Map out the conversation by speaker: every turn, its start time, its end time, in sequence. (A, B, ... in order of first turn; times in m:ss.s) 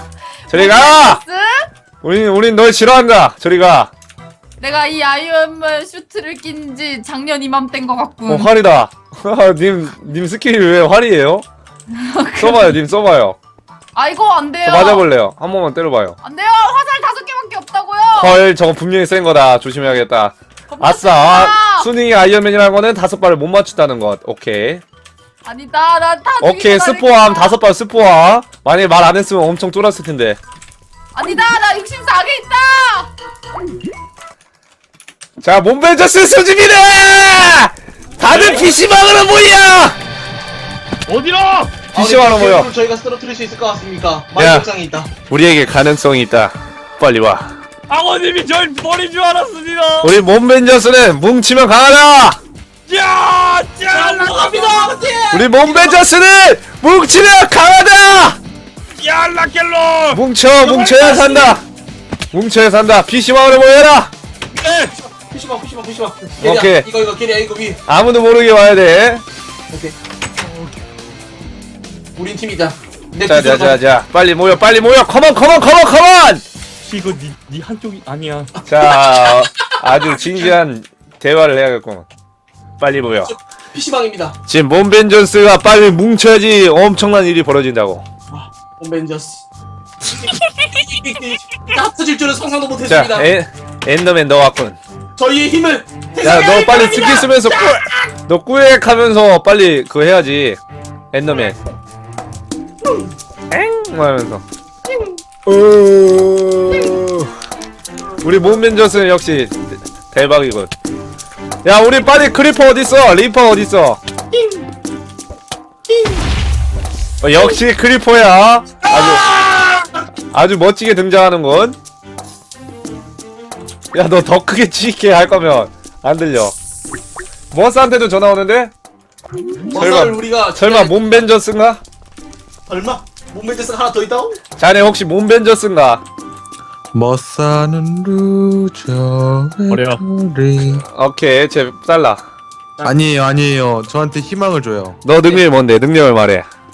0:00.5-0:01.7 A
0:00.5-0:01.2 B
0:02.0-0:03.9 B
0:04.6-0:08.5 A
0:08.3-0:11.4 B
0:11.9-0:12.8 A
0:12.4-0:13.4 B
0:14.0-0:15.1 A
0:14.6-0:16.2 B
0:16.2-0:18.4 A
0:18.2-0:24.8 B
0:20.7-0:21.9 A
0:25.4-0:27.6 A
0:26.4-0:30.4 B
0:31.1-0:33.1 A
0:35.4-0:40.0 B
0:38.2-0:38.7 C
0:41.1-0:41.9 C
0:41.9-0:42.7 B
0:41.9-0:45.1 D
0:44.4-0:44.7 B
0:45.3-0:47.6 B
0:47.9-0:50.1 C
0:50.0-0:52.4 B
0:52.9-0:54.9 C
0:53.9-0:56.0 D
0:55.3-0:58.4 B
0:58.9-1:00.2 C
1:00.1-1:01.6 B
1:00.6-1:01.6 D
1:02.3-1:04.1 B
1:04.5-1:05.0 C
1:05.2-1:07.8 D
1:06.4-1:06.9 B
1:07.9-1:09.2 B
1:09.7-1:10.0 D
1:12.2-1:13.8 D
1:13.2-1:16.4 B
1:16.8-1:18.5 C
1:18.7-1:22.1 B
1:18.9-1:19.3 D
1:22.8-1:23.3 B
1:23.2-1:24.4 D
1:24.5-1:28.0 B
1:28.3-1:29.4 D
1:30.0-1:33.3 D
1:32.9-1:34.8 B
1:35.2-1:37.8 D
1:36.2-1:40.6 B
1:41.1-1:41.6 B
1:41.3-1:41.5 D
1:42.8-1:43.1 D
1:43.5-1:44.4 B
1:44.9-1:45.2 D
1:45.5-1:47.3 B
1:48.2-1:50.7 B
1:48.3-1:48.6 D
1:51.6-1:54.0 B
1:54.3-1:54.6 D
1:57.2-1:59.3 B
1:58.9-2:00.0 D
2:00.3-2:01.8 B
2:03.9-2:06.5 B
2:07.5-2:08.7 B
2:09.7-2:11.3 D
2:09.8-2:11.8 B
2:12.7-2:14.4 D
2:14.6-2:16.0 B
2:16.9-2:20.8 E
2:19.7-2:20.0 C
2:20.8-2:22.2 B
2:22.8-2:23.0 D
2:22.8-2:25.0 E
2:25.0-2:26.5 B